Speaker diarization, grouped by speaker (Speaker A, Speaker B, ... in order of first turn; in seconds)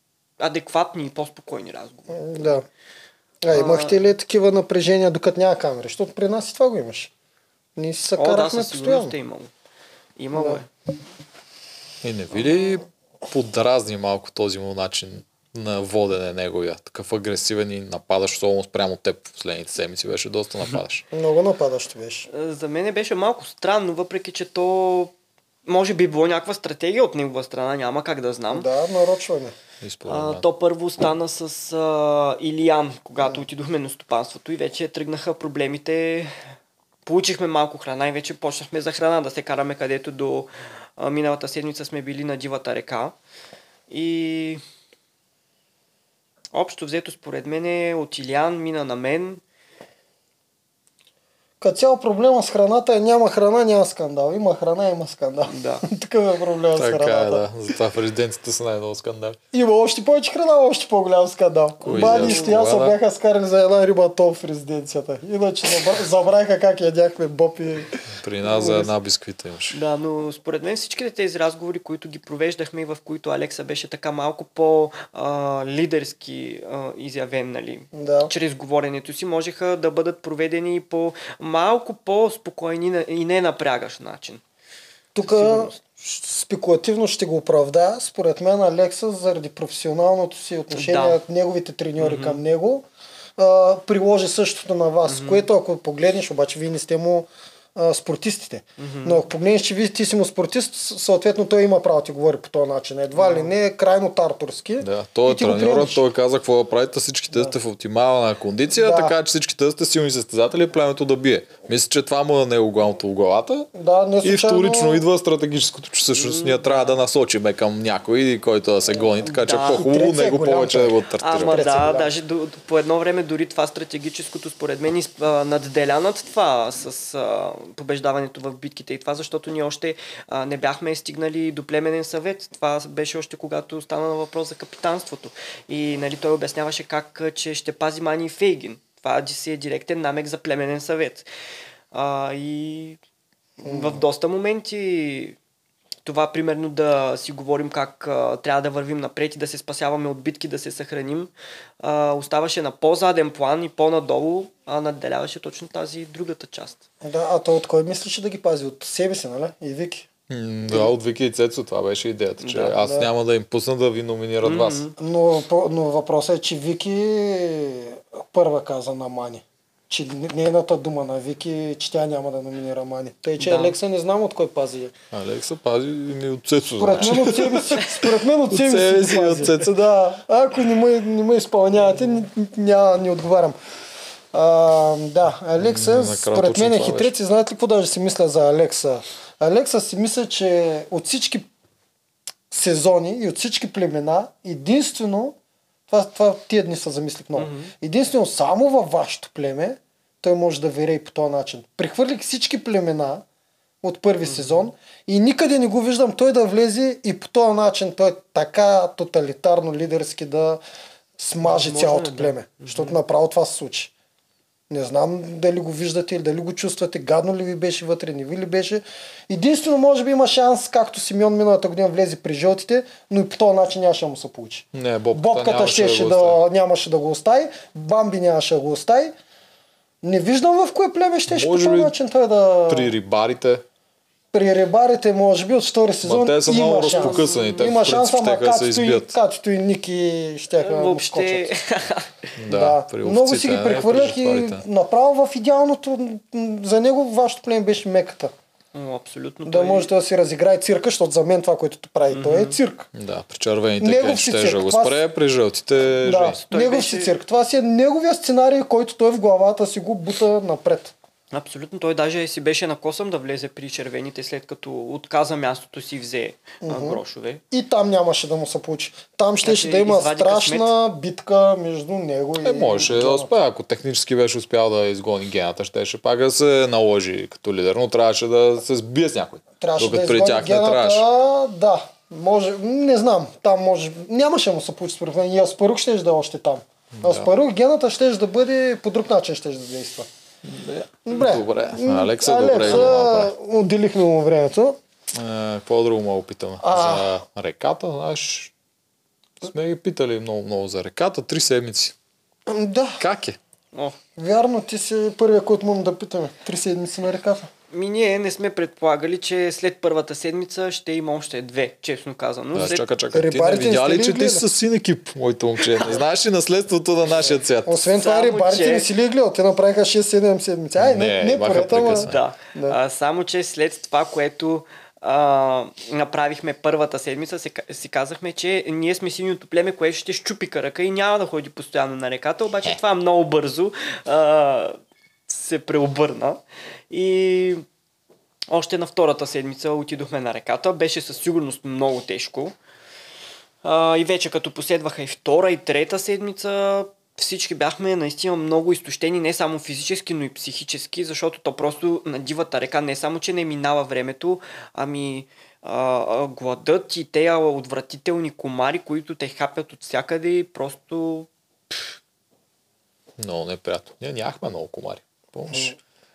Speaker A: 0.4-2.5, 3.5-4.0, 8.2-9.5, 10.2-10.7, 22.3-25.1, 25.6-28.7, 30.1-36.5, 37.0-43.1, 43.9-44.6, 46.5-49.4, 55.5-55.8, 61.9-62.6, 69.7-84.4, 85.2-85.8, 90.7-91.2, 92.0-92.4, 95.1-95.5, 98.8-99.2, 103.1-103.5, 116.1-117.0, 119.2-119.8, 121.2-141.3, 141.9-143.0, 143.6-145.4, 146.0-151.3, 151.8-156.8, 162.4-162.8, 164.4-164.9, 173.4-173.7, 197.3-197.7, 204.2-204.7, 211.4-213.0, 236.9-237.5, 240.6-242.3, 248.7-249.9, 252.1-252.6, 256.2-257.1, 261.3-267.4, 269.4-270.7, 307.7-312.8, 317.9-318.9, 321.9-334.8, 335.3-337.6, 338.5-342.5, 343.6-361.8
Speaker B: 2.1-2.6, 3.4-7.1, 7.8-9.1, 10.3-10.6, 21.1-22.3, 28.5-29.5, 51.6-57.4, 59.5-68.9, 77.9-78.3, 85.1-92.8, 93.4-106.0, 108.8-109.1, 113.7-115.0, 119.7-122.1, 143.6-144.0, 157.0-160.1, 162.8-163.1, 165.0-174.9, 176.8-183.6, 184.3-191.5, 192.5-195.3, 195.9-203.2, 203.8-210.6, 211.2-213.9, 214.7-229.1, 230.0-232.9, 234.3-241.5, 242.5-248.3, 249.4-252.9, 253.8-255.0, 256.0-260.9, 266.6-267.0, 267.5-273.3, 279.6-290.1, 291.1-294.8, 296.6-297.1, 302.5-303.0, 304.2-307.5, 313.1-314.4, 317.6-322.8
Speaker C: 12.0-21.0, 29.8-30.4, 56.8-59.4, 61.9-63.0, 68.1-69.8, 104.8-113.7, 114.2-121.8, 160.3-164.8, 175.1-179.8, 185.6-187.1, 224.7-226.4, 231.3-231.9, 232.7-233.6, 236.0-239.1, 242.4-244.6, 252.9-256.4, 272.4-281.0, 286.9-287.3, 290.4-293.3, 295.1-298.5, 299.4-301.9, 303.0-303.4, 312.5-317.9, 320.8-322.2, 363.2-365.7